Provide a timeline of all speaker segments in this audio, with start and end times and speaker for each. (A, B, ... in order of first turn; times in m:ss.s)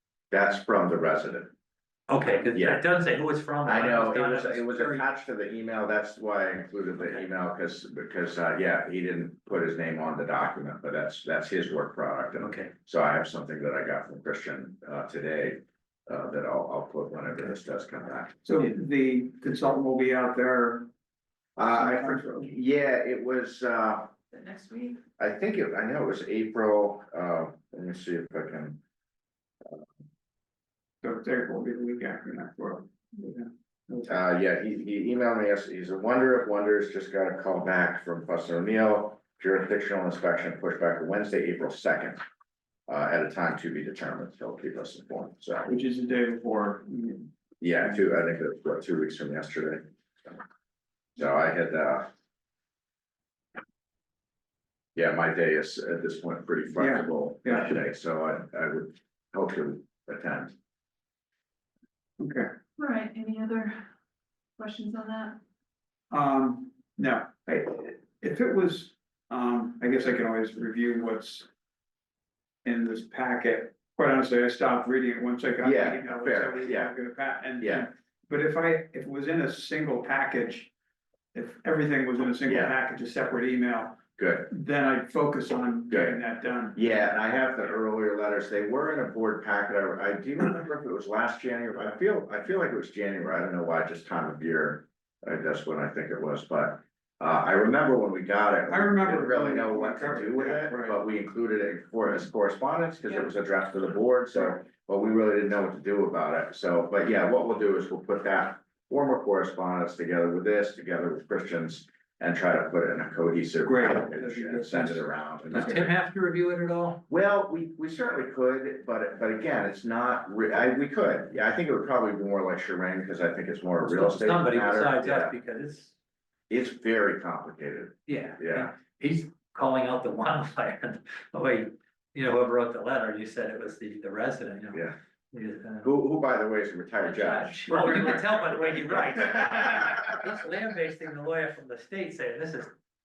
0:00.3-0:01.5 A
0:02.1-0:05.0 B
0:02.5-0:02.8 A
0:03.6-0:18.4 A
0:12.4-0:12.7 B
0:18.4-0:20.9 C
0:21.6-0:24.1 A
0:21.7-0:22.5 C
0:24.3-0:25.0 D
0:25.2-0:28.8 A
0:31.0-0:34.2 C
0:34.1-0:42.2 A
0:42.9-0:45.7 A
0:45.7-0:47.3 C
0:47.6-0:50.4 A
0:51.2-0:52.1 A
0:55.0-1:00.5 A
0:56.8-0:57.7 C
1:02.2-1:02.6 C
1:02.8-1:03.8 D
1:04.6-1:05.4 D
1:06.1-1:11.5 C
1:12.6-1:20.7 C
1:15.6-1:16.9 A
1:17.6-1:17.9 A
1:21.3-1:26.8 C
1:22.5-1:22.7 A
1:24.2-1:24.5 A
1:25.9-1:26.2 A
1:26.8-1:55.9 A
1:38.7-1:41.0 C
1:53.6-1:55.0 C
1:55.5-1:57.0 B
1:57.1-2:05.3 A
2:03.8-2:06.0 B
2:06.5-2:08.7 A
2:08.1-2:14.8 B
2:15.3-2:15.9 B
2:15.8-2:19.0 A
2:17.1-2:22.7 B